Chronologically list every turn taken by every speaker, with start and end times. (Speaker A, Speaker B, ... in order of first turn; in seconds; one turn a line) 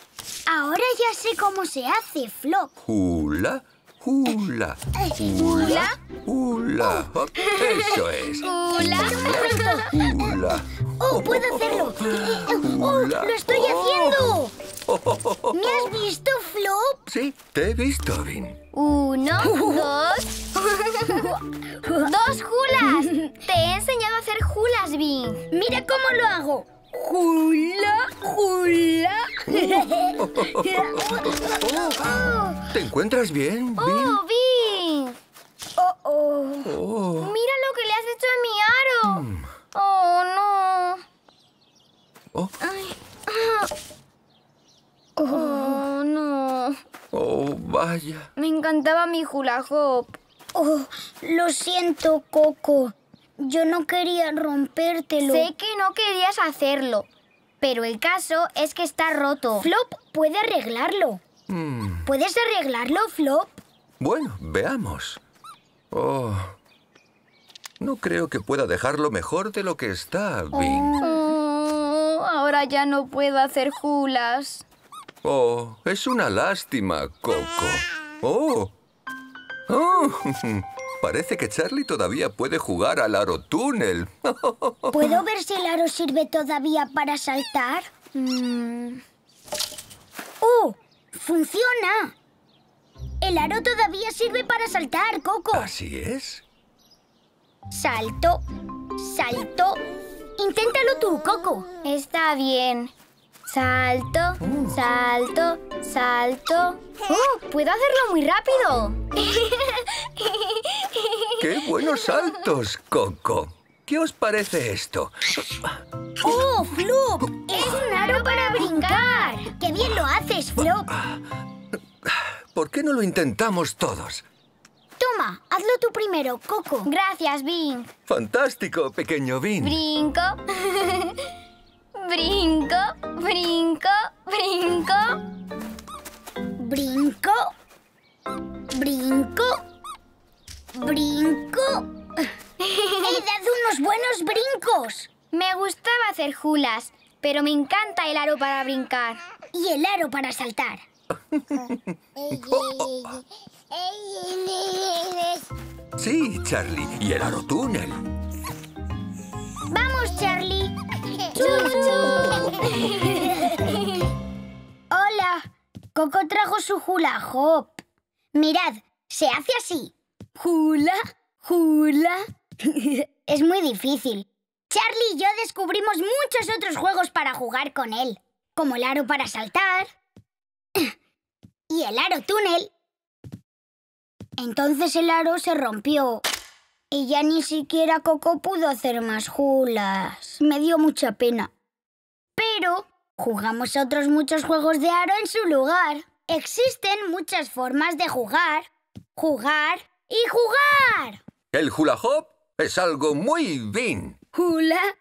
Speaker A: 0.5-2.7
Speaker B: 2.9-8.5
Speaker C: 5.4-6.0
Speaker C: 7.4-9.9
Speaker A: 8.8-10.4
Speaker B: 9.0-15.9
Speaker A: 11.0-14.5
Speaker A: 15.5-17.0
Speaker B: 17.1-18.6
Speaker C: 18.7-21.3
Speaker A: 19.4-19.9
Speaker A: 21.1-22.1
Speaker C: 22.0-25.5
Speaker A: 25.5-32.7
Speaker B: 30.2-34.2
Speaker C: 33.8-35.2
Speaker A: 35.8-36.8
Speaker B: 36.6-37.3
Speaker C: 37.2-41.0
Speaker B: 39.0-39.5
Speaker C: 42.6-43.7
Speaker A: 45.2-45.8
Speaker C: 45.2-46.8
Speaker B: 47.1-48.3
Speaker C: 48.4-50.2
Speaker A: 50.5-55.5
Speaker C: 55.2-57.1
Speaker C: 57.6-59.7
Speaker A: 59.6-61.2
Speaker B: 61.5-62.1
Speaker A: 62.0-63.6
Speaker B: 64.0-65.2
Speaker B: 65.9-66.6
Speaker B: 67.8-71.0
Speaker A: 70.5-71.3
Speaker C: 71.0-74.6
Speaker B: 75.2-78.7
Speaker B: 79.7-85.1
Speaker A: 84.9-87.9
Speaker C: 88.1-89.0
Speaker A: 90.4-92.1
Speaker A: 93.2-95.7
Speaker B: 95.5-96.4
Speaker A: 97.7-98.4
Speaker A: 99.0-99.8
Speaker A: 100.4-101.7
Speaker C: 101.8-102.9
Speaker C: 103.5-111.4
Speaker B: 104.4-104.8
Speaker B: 111.4-115.7
Speaker A: 116.2-120.9
Speaker C: 117.5-119.5
Speaker B: 120.9-121.2
Speaker B: 122.0-124.2
Speaker A: 125.0-126.9
Speaker C: 126.8-127.9
Speaker B: 128.1-129.8
Speaker C: 129.6-131.3
Speaker C: 132.0-135.2
Speaker A: 136.6-137.5
Speaker A: 138.7-139.6
Speaker A: 140.7-142.2
Speaker C: 142.6-143.2
Speaker A: 143.0-145.1
Speaker C: 145.3-149.2
Speaker A: 149.5-150.8
Speaker B: 151.3-151.8
Speaker A: 152.3-153.2
Speaker B: 152.3-152.8
Speaker A: 153.9-155.2
Speaker B: 155.9-158.0
Speaker A: 159.7-163.8
Speaker C: 161.3-164.1
Speaker A: 164.9-165.4
Speaker A: 165.9-167.8
Speaker A: 168.3-169.9
Speaker C: 170.4-172.2
Speaker A: 171.6-172.0
Speaker A: 172.6-179.9
Speaker A: 181.7-182.7
Speaker A: 184.4-186.2
Speaker A: 186.9-191.5
Speaker A: 192.4-201.2
Speaker B: 201.5-204.2
Speaker A: 204.4-204.7
Speaker C: 204.5-204.8